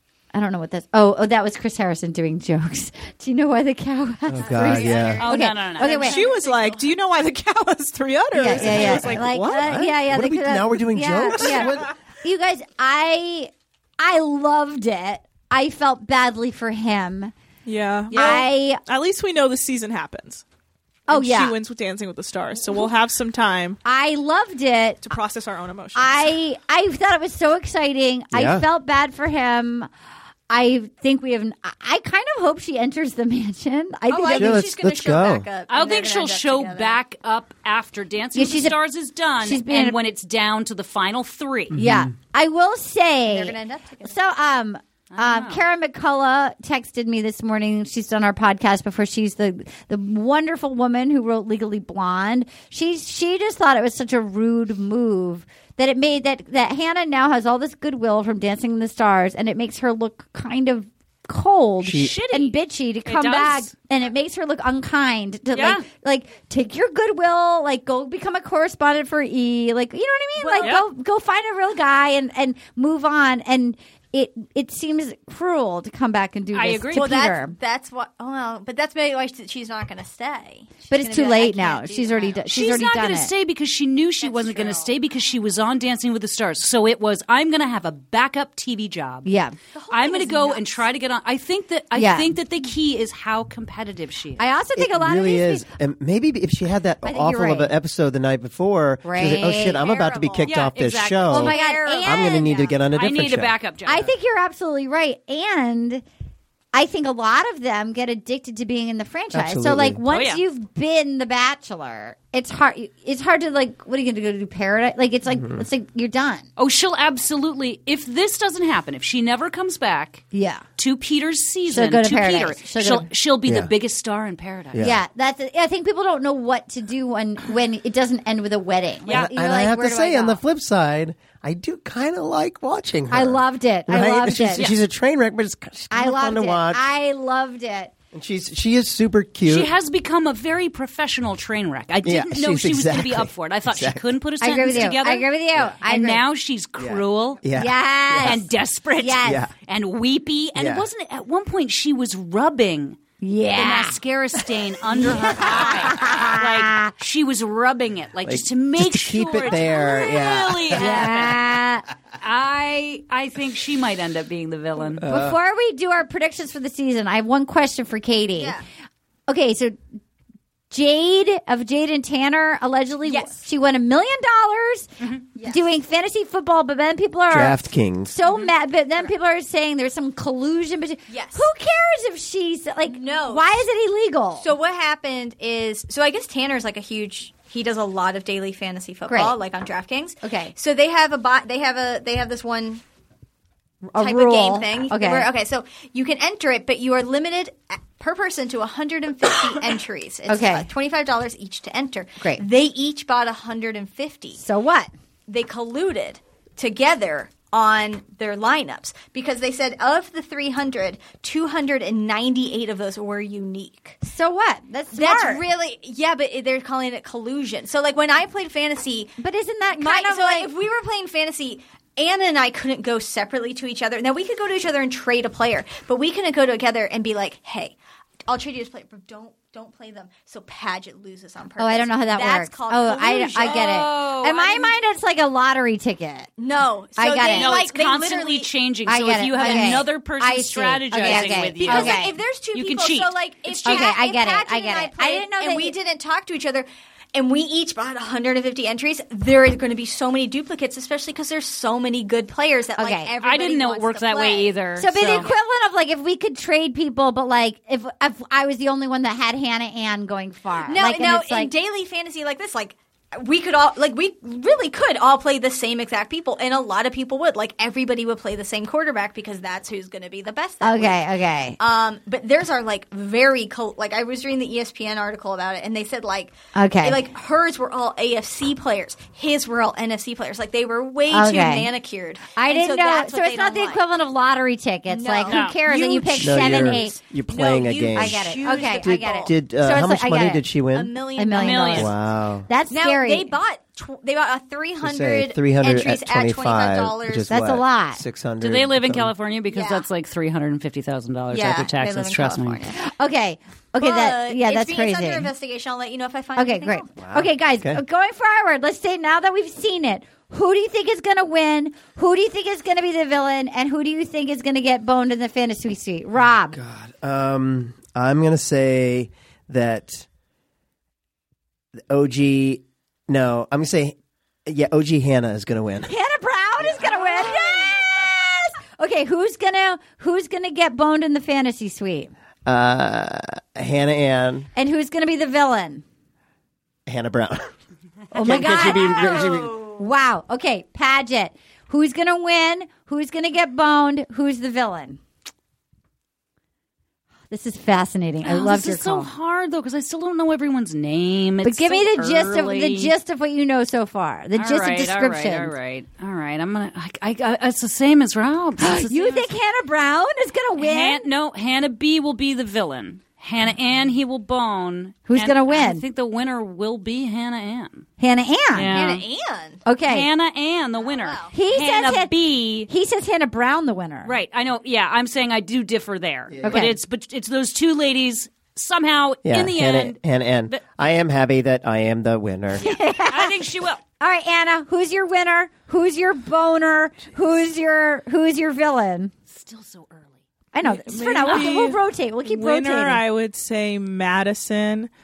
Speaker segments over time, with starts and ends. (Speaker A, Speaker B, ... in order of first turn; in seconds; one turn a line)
Speaker A: 0.3-6.2
Speaker B: 4.3-5.3
Speaker C: 4.4-7.0
Speaker D: 5.2-6.1
Speaker E: 6.0-9.5
Speaker A: 8.3-17.3
Speaker B: 8.5-11.9
Speaker E: 17.6-20.4
Speaker A: 18.1-18.8
Speaker A: 21.1-21.6
Speaker E: 21.1-23.8
Speaker A: 23.9-25.2
Speaker E: 25.0-26.4
Speaker A: 25.9-29.9
Speaker B: 28.3-28.7
Speaker A: 30.5-34.6
Speaker C: 34.1-37.0
Speaker B: 34.3-35.5
Speaker D: 35.7-41.8
Speaker A: 38.4-38.8
Speaker A: 39.4-40.0
Speaker B: 41.7-42.1
Speaker A: 41.7-77.6
Speaker C: 43.3-44.2
Speaker D: 45.1-45.6
Speaker B: 61.8-62.2
Speaker D: 61.9-63.7
Speaker D: 65.5-65.8
Speaker C: 70.4-70.8
Speaker D: 76.5-77.2
Speaker C: 76.9-82.9
Speaker A: 80.9-83.3
Speaker D: 82.5-89.3
Speaker C: 84.2-84.9
Speaker A: 89.2-89.6
Speaker C: 89.7-90.9
Speaker D: 89.9-94.4
Speaker A: 91.9-92.3
Speaker A: 94.4-95.7
Speaker B: 94.8-103.5
Speaker A: 97.0-97.7
Speaker A: 99.0-99.8
Speaker C: 99.5-100.7
Speaker D: 100.5-101.5
Speaker A: 101.3-102.7
Speaker C: 101.3-102.8
Speaker D: 102.9-104.1
Speaker A: 103.9-106.0
Speaker A: 106.7-116.5
Speaker B: 109.3-110.0
Speaker D: 110.1-110.4
Speaker D: 116.6-120.2
Speaker A: 120.3-120.6
Speaker D: 120.8-124.9
Speaker A: 121.7-123.1
Speaker B: 123.5-123.7
Speaker B: 124.7-125.0
Speaker A: 124.8-130.4
Speaker B: 129.1-136.9
Speaker A: 133.1-134.7
Speaker A: 135.9-137.9
Speaker B: 138.1-139.7
Speaker D: 139.5-145.3
Speaker B: 142.0-144.1
Speaker A: 144.4-146.2
Speaker D: 145.8-147.4
Speaker B: 146.8-148.4
Speaker A: 147.5-148.5
Speaker D: 148.2-153.0
Speaker A: 149.0-149.4
Speaker B: 149.2-149.5
Speaker B: 150.6-150.9
Speaker A: 153.2-154.0
Speaker D: 153.6-161.6
Speaker A: 154.9-156.9
Speaker B: 158.2-161.2
Speaker A: 160.7-161.9
Speaker D: 162.2-165.0
Speaker B: 165.0-165.4
Speaker A: 165.0-168.6
Speaker C: 168.4-168.6
Speaker A: 169.3-169.8
Speaker A: 170.7-184.5
Speaker C: 173.1-173.4
Speaker C: 175.3-175.7
Speaker B: 177.3-178.1
Speaker C: 181.1-181.5
Speaker C: 182.9-183.7
Speaker C: 184.4-192.8
Speaker A: 189.1-189.4
Speaker A: 190.2-190.5
Speaker A: 193.9-195.3
Speaker C: 194.0-204.4
Speaker A: 200.3-200.7
Speaker A: 204.4-204.9
Speaker C: 205.3-214.0
Speaker A: 214.0-215.4
Speaker C: 214.9-219.2
Speaker A: 219.2-220.5
Speaker C: 219.7-233.9
Speaker A: 231.6-236.3
Speaker D: 233.2-234.7
Speaker C: 236.4-238.5
Speaker A: 237.0-237.6
Speaker D: 237.2-243.9
Speaker A: 238.9-242.2
Speaker C: 239.4-239.8
Speaker C: 240.9-255.4
Speaker A: 243.7-245.8
Speaker A: 252.8-253.1
Speaker D: 253.2-255.3
Speaker A: 254.8-261.5
Speaker C: 260.7-271.0
Speaker A: 270.6-271.6
Speaker C: 271.6-283.8
Speaker A: 276.6-277.1
Speaker A: 281.1-281.7
Speaker A: 282.4-287.0
Speaker C: 284.9-289.3
Speaker D: 285.3-285.6
Speaker B: 286.2-290.9
Speaker A: 287.9-290.5
Speaker C: 290.7-291.9
Speaker A: 291.2-291.9
Speaker D: 291.4-291.9
Speaker B: 291.8-292.5
Speaker A: 292.5-293.3
Speaker C: 292.7-297.3
Speaker B: 294.8-299.1
Speaker A: 297.3-298.0
Speaker D: 298.4-302.6
Speaker C: 299.5-299.9
Speaker C: 301.3-302.8
Speaker A: 302.7-305.3
Speaker C: 303.8-306.9
Speaker A: 306.4-316.6
Speaker B: 307.0-307.8
Speaker B: 316.5-320.1
Speaker B: 321.9-325.9
Speaker A: 325.9-332.1
Speaker B: 332.5-334.5
Speaker A: 334.6-335.8
Speaker B: 336.9-337.5
Speaker B: 338.1-339.7
Speaker A: 338.1-345.0
Speaker C: 338.5-339.8
Speaker A: 347.3-349.1
Speaker D: 348.2-352.9
Speaker A: 351.4-355.5
Speaker D: 354.4-359.3
Speaker A: 358.6-361.1
Speaker D: 360.6-367.9
Speaker A: 365.1-365.8
Speaker A: 368.0-368.8
Speaker D: 368.5-369.0
Speaker C: 368.7-369.6
Speaker A: 369.6-370.1
Speaker D: 369.9-372.7
Speaker C: 370.8-371.3
Speaker A: 371.3-374.1
Speaker D: 374.0-380.6
Speaker B: 376.3-376.8
Speaker A: 376.4-376.8
Speaker B: 379.2-382.7
Speaker A: 382.6-383.4
Speaker D: 383.0-383.8
Speaker A: 384.0-389.1
Speaker D: 389.3-390.2
Speaker A: 390.5-393.0
Speaker E: 390.6-394.9